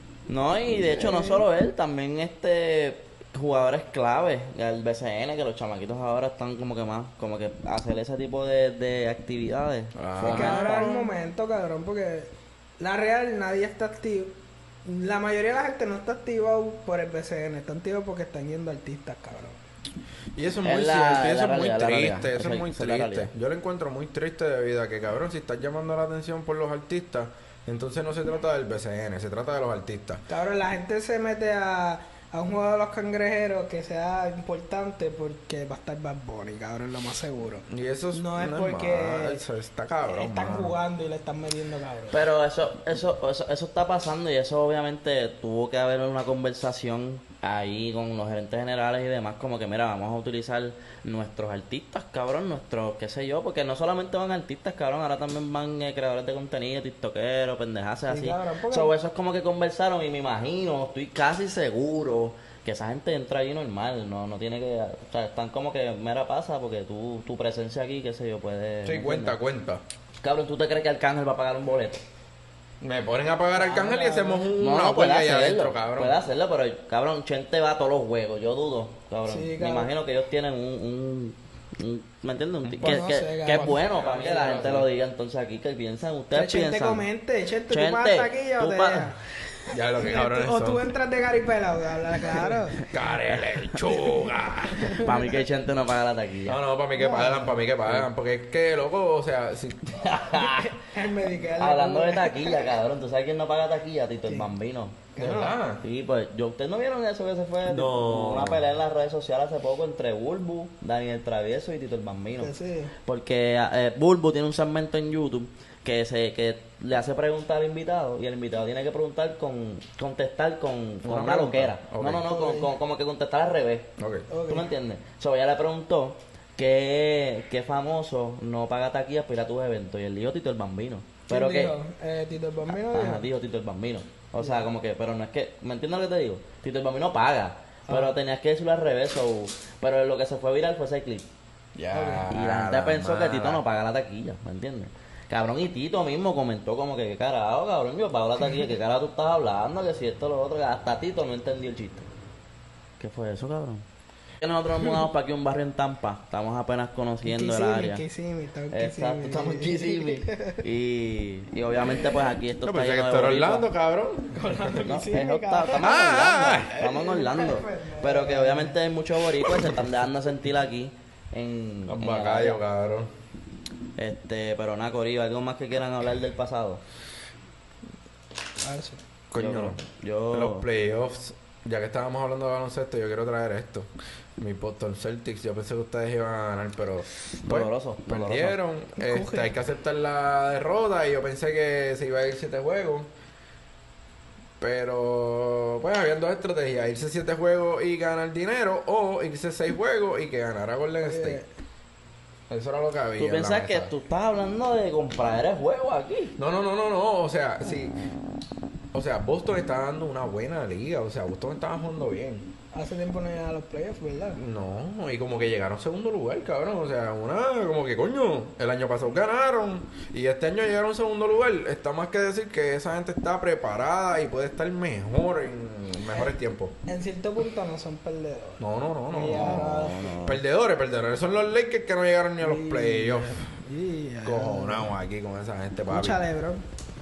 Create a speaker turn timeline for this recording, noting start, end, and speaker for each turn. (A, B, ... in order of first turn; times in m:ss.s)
0:00.3-0:11.1 A
0:00.8-0:01.4 B
0:10.0-0:10.9 C
0:10.2-0:19.6 B
0:20.4-0:30.2 C
0:20.6-0:23.3 A
0:30.3-0:39.4 B
0:37.7-0:40.8 C
0:40.0-0:42.2 B
0:42.1-1:09.4 A
0:58.1-0:58.9 B
1:08.8-1:09.8 C
1:10.2-1:12.0 A
1:12.8-1:16.2 C
1:13.5-1:14.5 B
1:14.6-1:27.1 A
1:19.2-1:19.9 B
1:22.8-1:24.9 C
1:22.8-1:23.8 B
1:26.3-1:29.2 B
1:27.7-1:29.1 A
1:29.7-1:30.8 C
1:30.0-1:32.8 B
1:32.9-1:35.2 C
1:34.7-1:35.4 B
1:35.0-1:36.6 A
1:36.4-1:40.2 C
1:37.0-1:37.6 B
1:40.0-1:40.7 A
1:40.4-1:42.7 B
1:41.6-1:45.1 A
1:44.2-1:44.5 B
1:45.1-1:45.6 B
1:45.2-1:45.8 C
1:45.8-1:52.5 A
1:47.6-1:48.7 C
1:52.4-1:52.9 B
1:53.0-2:03.9 A
2:01.0-2:02.3 C
2:02.3-2:02.7 B
2:04.0-2:04.3 C
2:04.3-2:04.7 B
2:04.5-2:11.7 A
2:11.3-2:13.3 B
2:12.7-2:21.3 A
2:14.4-2:14.7 B
2:17.9-2:18.2 B
2:21.8-2:23.6 C
2:21.9-2:22.3 B
2:22.3-2:32.1 A
2:28.4-2:28.7 B
2:33.0-2:33.8 A
2:34.4-2:38.0 A
2:34.8-2:35.1 B
2:37.2-2:40.6 B
2:38.7-2:43.7 A
2:41.8-2:42.3 B
2:42.6-2:44.6 C
2:44.3-2:46.0 B
2:44.8-2:52.6 A
2:45.8-2:46.8 C
2:46.7-2:48.8 B
2:51.9-2:53.1 C
2:54.0-2:56.8 A
2:58.6-2:59.0 B
2:59.3-2:59.8 C
2:59.3-3:00.7 A
3:00.3-3:13.1 C
3:07.4-3:08.6 A
3:09.0-3:09.5 B
3:14.6-3:21.4 C
3:21.0-3:21.5 B
3:22.5-3:23.9 C
3:23.2-3:26.3 A
3:26.4-3:28.0 C
3:28.9-3:32.5 C
3:32.7-3:34.4 B
3:34.4-3:46.7 C
3:46.9-3:50.2 B
3:48.6-3:53.4 C
3:49.3-3:50.4 A
3:52.4-3:54.9 B
3:54.2-3:56.2 C
3:55.9-3:56.6 B